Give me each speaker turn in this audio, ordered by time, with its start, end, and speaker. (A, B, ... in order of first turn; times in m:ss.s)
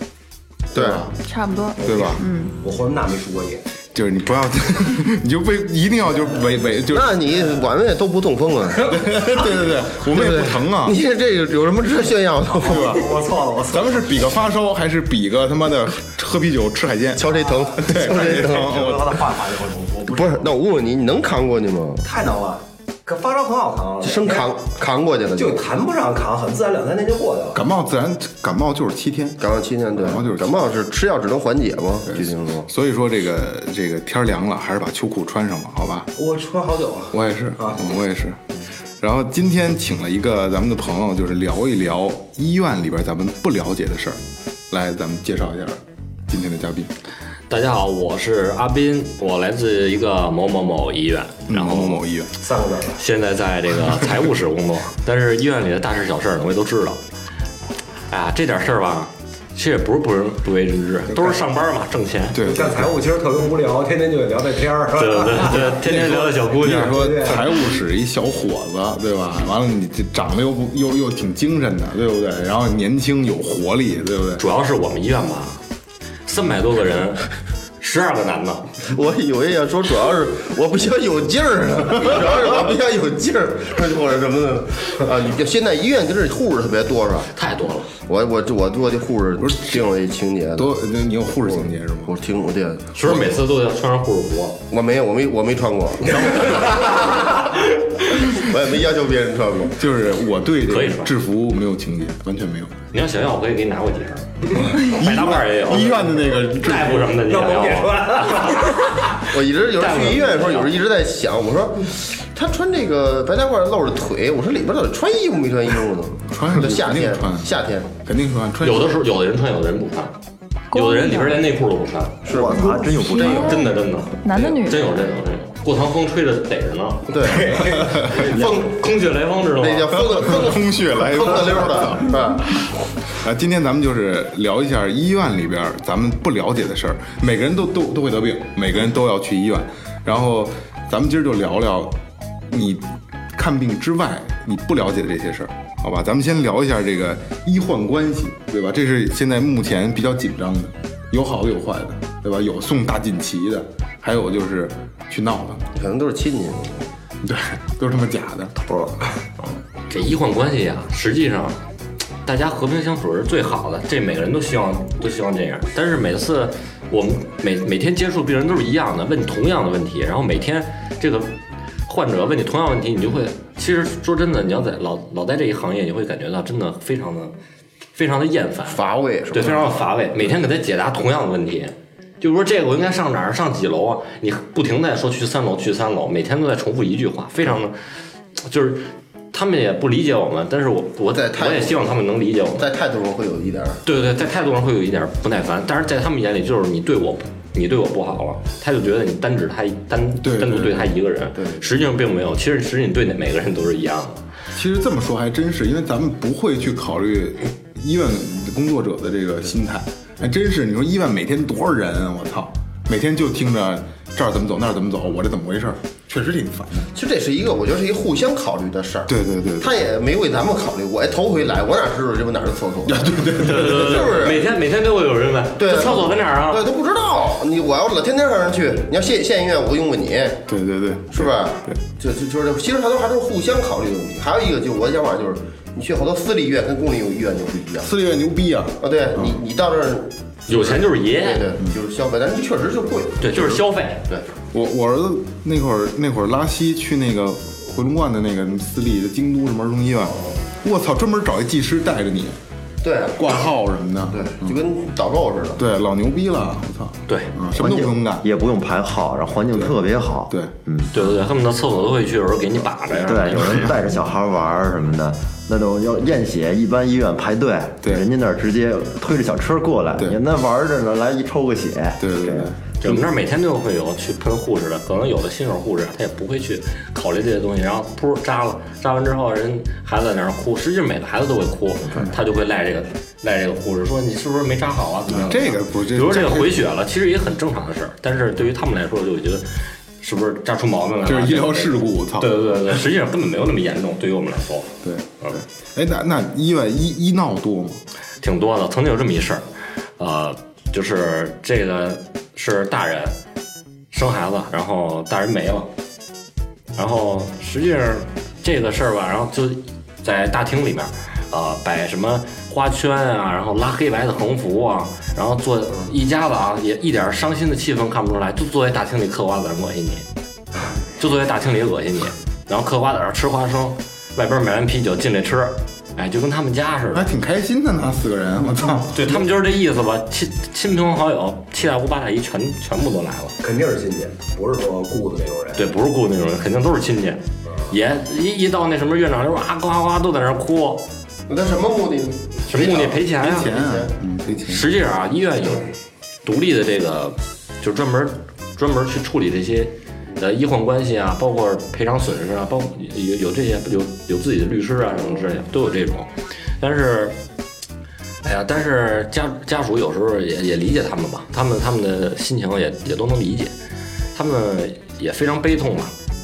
0:00.7-0:01.1 A
0:00.7-0:01.1 B
0:01.2-0:02.5 C
0:01.8-0:03.6 D
0:01.8-0:02.2 B
0:03.9-0:07.2 B
0:06.9-0:13.0 A
0:08.9-0:11.0 B
0:12.5-0:14.0 D
0:12.6-0:13.1 B
0:13.7-0:19.2 B
0:17.2-0:18.8 A
0:17.8-0:20.4 D
0:20.1-0:22.0 A
0:22.0-0:24.5 D
0:24.0-0:25.6 A
0:25.4-0:27.6 D
0:27.5-0:29.4 B
0:29.4-0:32.7 A
0:29.9-0:30.7 B
0:32.0-0:36.1 B
0:36.2-0:37.8 D
0:37.1-0:38.4 B
0:39.0-0:44.2 B
0:44.7-0:46.9 B
0:47.5-0:52.0 E
0:51.5-0:52.3 B
0:52.4-0:53.0 D
0:53.0-0:57.0 E
0:58.1-1:02.4 E
1:01.1-1:01.4 B
1:02.3-1:03.0 B
1:02.4-1:07.5 D
1:04.9-1:07.0 E
1:06.6-1:14.4 B
1:14.4-1:15.6 E
1:16.2-1:18.7 E
1:18.8-1:27.3 A
1:27.3-1:27.9 E
1:28.0-1:30.7 A
1:30.6-1:32.2 B
1:31.5-1:33.2 A
1:32.9-1:34.6 E
1:34.7-1:39.8 A
1:39.8-1:42.7 B
1:40.7-1:41.1 E
1:42.9-1:46.0 E
1:44.5-1:47.1 B
1:46.6-1:50.7 E
1:47.0-1:48.8 D
1:49.2-1:57.9 A
1:56.3-1:59.0 B
1:58.6-2:00.1 E
2:00.7-2:01.4 C
2:00.7-2:02.2 E
2:02.2-2:03.7 F
2:02.3-2:02.9 A
2:02.3-2:03.2 D
2:03.1-2:04.8 C
2:03.2-2:07.1 E
2:07.1-2:08.2 D
2:07.2-2:08.3 B
2:08.0-2:10.2 E
2:09.6-2:12.6 A
2:10.1-2:12.2 B
2:13.1-2:22.0 B
2:22.5-2:35.6 B
2:35.7-2:36.9 A
2:37.2-2:38.6 B
2:39.9-2:41.6 E
2:42.2-2:51.3 E
2:51.8-2:57.3 E
2:57.9-2:58.8 E
2:58.7-2:59.9 A
2:59.3-3:07.8 E
3:08.4-3:12.7 E
3:11.1-3:12.0 A
3:12.6-3:13.8 A
3:13.8-3:24.2 E
3:20.2-3:21.0 B
3:21.4-3:21.6 A
3:24.5-3:36.9 B
3:36.9-3:44.5 A
3:39.1-3:39.7 B
3:42.8-3:44.3 B
3:43.4-3:46.6 E
3:45.6-3:50.4 A
3:50.5-3:51.8 B
3:51.1-3:57.9 A
3:57.8-3:59.4 B
3:58.8-4:04.3 A
4:00.5-4:01.4 E
4:03.2-4:04.0 E
4:04.5-4:12.4 B
4:12.8-4:13.3 A
4:13.1-4:14.6 B
4:14.1-4:15.6 A
4:15.6-4:18.3 B
4:17.1-4:17.3 E
4:17.5-4:20.9 F
4:20.9-4:23.7 E
4:23.0-4:33.0 F
4:32.0-4:32.6 B
4:32.8-4:49.4 E
4:45.1-4:46.6 B
4:50.0-4:55.4 E
4:51.0-4:52.4 B
4:54.8-4:57.8 B
4:58.2-4:59.4 E
5:00.0-5:03.1 E
5:03.9-5:05.7 E
5:06.7-5:20.0 E
5:20.8-5:27.1 E
5:26.9-5:29.2 B
5:28.9-5:33.3 E
5:33.4-5:35.7 D
5:35.6-5:40.8 E
5:41.3-5:43.9 A
5:42.5-5:43.5 E
5:43.2-5:44.7 B
5:44.4-5:45.7 E
5:46.2-5:57.2 E
5:58.2-6:03.5 E
6:04.1-6:05.9 E